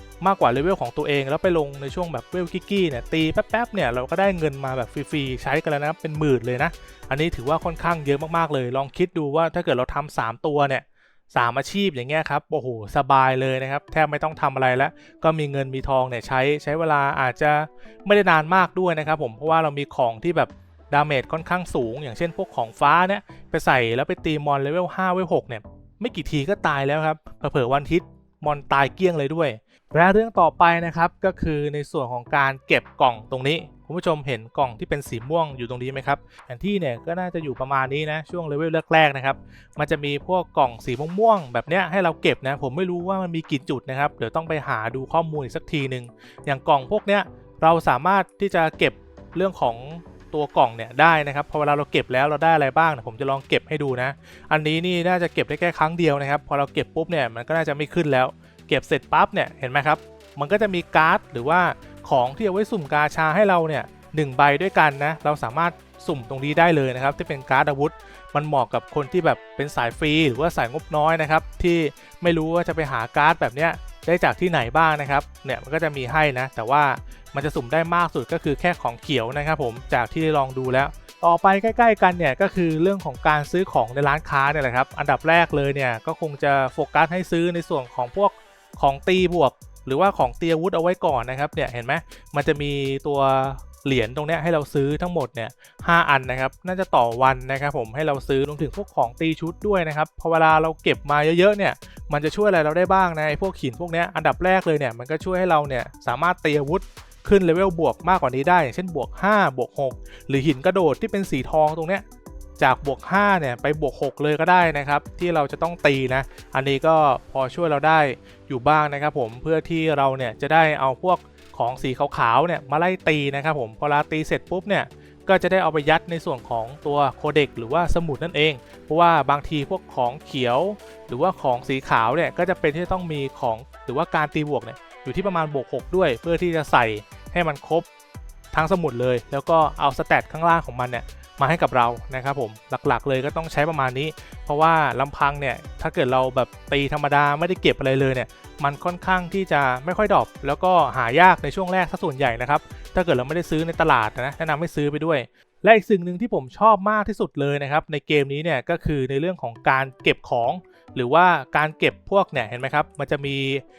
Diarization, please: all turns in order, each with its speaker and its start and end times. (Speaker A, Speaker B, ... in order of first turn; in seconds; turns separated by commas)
Speaker A: 0.2-112.0, Speaker A: 112.6-137.8, Speaker A: 138.5-163.6